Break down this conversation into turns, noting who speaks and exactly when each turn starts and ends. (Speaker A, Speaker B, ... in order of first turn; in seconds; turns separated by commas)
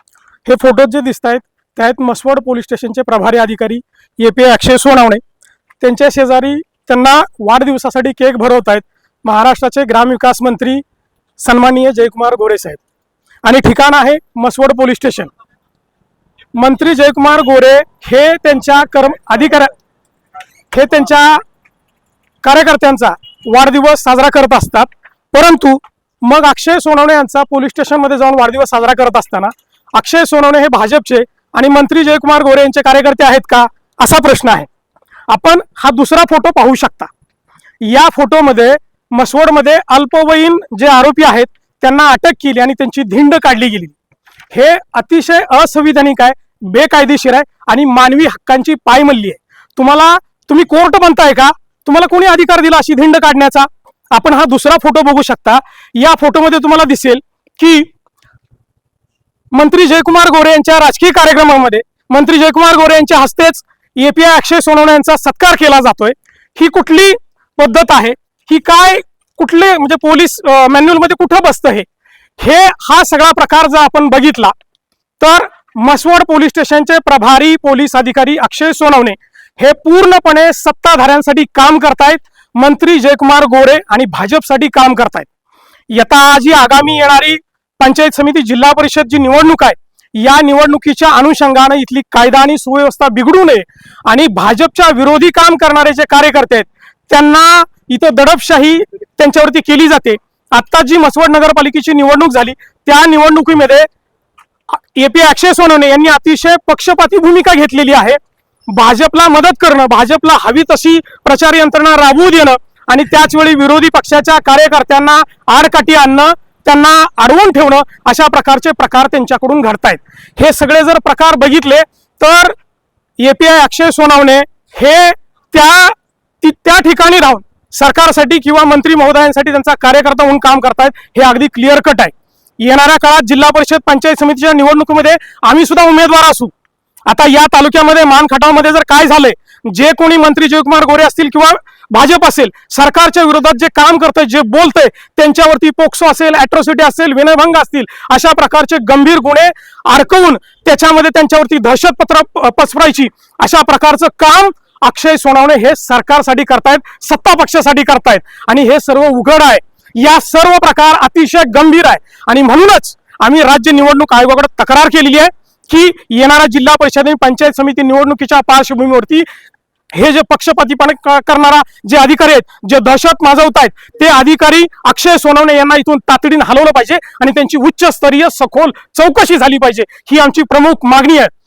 Speaker A: 0.4-5.2, Speaker A: 5.8-10.8, Speaker A: 11.4-12.8, Speaker A: 13.4-15.3, Speaker A: 16.5-19.7, Speaker A: 20.7-21.4, Speaker A: 22.4-34.7, Speaker A: 35.3-37.1, Speaker A: 37.8-44.0, Speaker A: 44.5-57.9, Speaker A: 59.5-71.9, Speaker A: 72.4-74.5, Speaker A: 75.2-85.3, Speaker A: 85.9-103.9, Speaker A: 104.7-122.6, Speaker A: 123.2-136.5, Speaker A: 137.1-169.2, Speaker A: 169.9-181.3